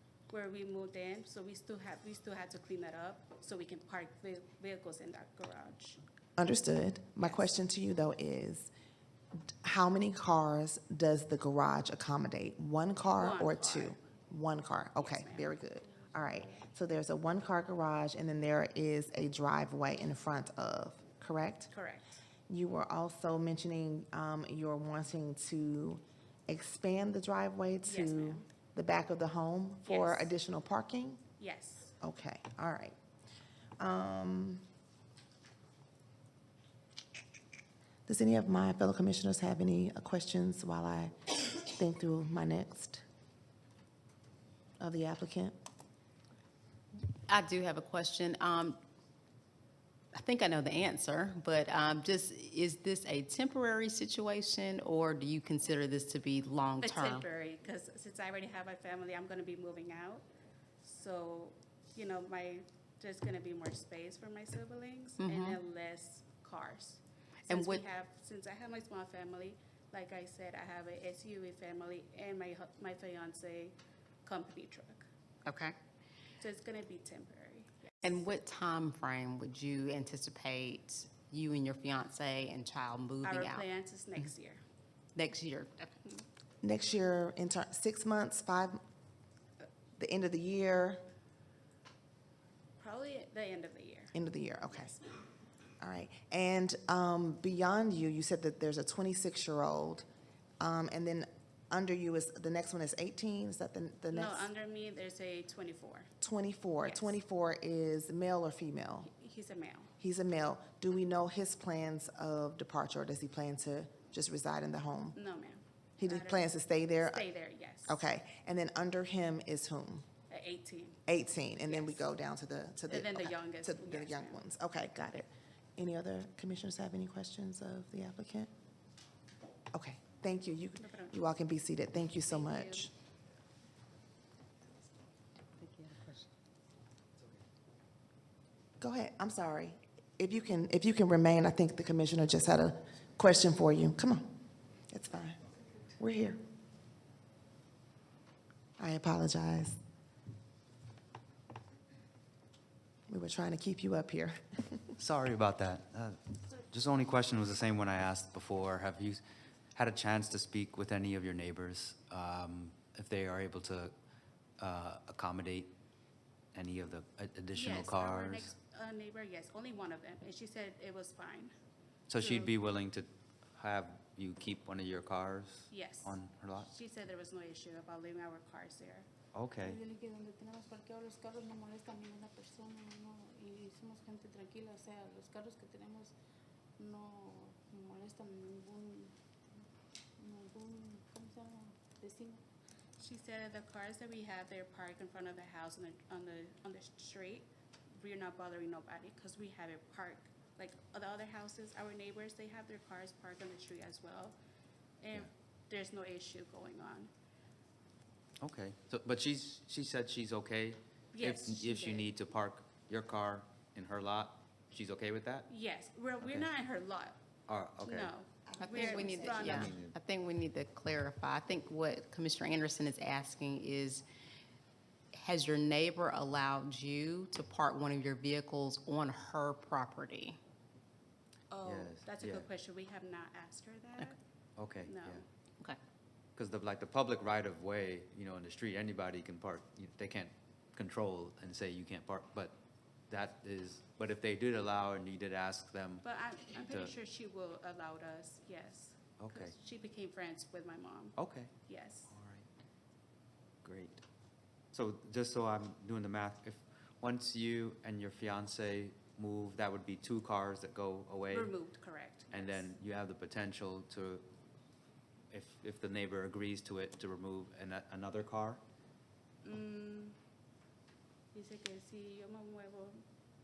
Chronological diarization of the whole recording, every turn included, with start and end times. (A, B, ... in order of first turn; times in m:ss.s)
0:00.3-0:06.0 A
0:06.4-0:08.7 B
0:07.2-0:07.6 A
0:09.6-0:21.7 B
0:13.2-0:14.0 A
0:15.0-0:16.6 A
0:21.7-0:22.2 A
0:22.5-0:31.2 B
0:27.8-0:28.4 A
0:29.8-0:30.3 A
0:31.4-0:31.9 A
0:32.0-0:33.0 B
0:33.8-0:34.6 B
0:38.1-0:41.2 B
0:41.7-0:43.0 B
0:44.8-0:45.6 B
0:47.3-0:48.8 C
0:50.1-0:57.2 C
0:56.8-1:00.3 A
1:00.8-1:15.1 A
1:05.2-1:05.6 C
1:07.5-1:07.8 C
1:15.5-1:15.8 C
1:16.4-1:18.1 A
1:18.0-1:23.7 C
1:23.2-1:24.6 A
1:25.2-1:25.9 C
1:26.6-1:28.8 B
1:30.0-1:31.0 B
1:32.8-1:34.1 A
1:34.1-1:35.0 B
1:35.8-1:40.1 B
1:40.6-1:44.5 B
1:44.1-1:46.1 A
1:46.2-1:49.1 B
1:46.8-1:47.2 A
1:49.0-1:49.9 A
1:50.0-1:55.2 B
1:55.2-1:58.0 A
1:56.0-1:57.3 B
1:57.9-2:00.1 B
2:00.3-2:01.0 A
2:01.1-2:08.5 B
2:01.6-2:02.0 A
2:02.9-2:04.4 A
2:09.7-2:12.9 B
2:10.8-2:11.2 A
2:12.2-2:12.9 A
2:15.6-2:16.3 C
2:18.8-2:24.3 B
2:24.9-2:25.4 B
2:26.0-2:26.4 B
2:28.8-2:29.8 B
2:33.1-2:35.0 B
2:35.0-2:36.2 D
2:36.7-2:39.2 D
2:39.7-2:43.9 D
2:44.6-2:45.7 D
2:46.5-2:48.5 D
2:47.5-2:51.5 A
2:52.1-2:56.7 D
2:52.2-2:52.5 A
2:55.7-2:59.1 A
2:59.3-2:59.8 D
2:59.7-3:06.1 E
3:06.8-3:09.1 E
3:10.2-3:12.4 E
3:10.6-3:11.7 A
3:13.0-3:17.5 A
3:18.0-3:24.4 A
3:25.0-3:27.1 A
3:28.4-3:35.5 D
3:31.1-3:32.1 A
3:35.5-3:37.2 A
3:36.2-3:36.5 D
3:37.5-3:38.2 D
3:37.8-3:39.8 A
3:38.6-3:44.0 C
3:39.4-3:40.0 D
3:45.1-3:50.4 C
3:51.5-3:54.2 A
3:51.6-3:52.5 D
3:54.6-3:55.2 D
3:54.8-3:55.2 A
3:56.4-4:02.6 D
4:03.1-4:06.0 D
4:06.0-4:11.2 A
4:06.6-4:06.9 D
4:09.2-4:09.6 D
4:11.2-4:11.5 D
4:11.7-4:12.1 A
4:12.1-4:12.5 D
4:13.6-4:14.0 D
4:14.7-4:21.6 D
4:21.3-4:22.7 A
4:22.3-4:24.3 D
4:25.3-4:28.6 D
4:29.4-4:30.2 A
4:31.3-4:33.0 A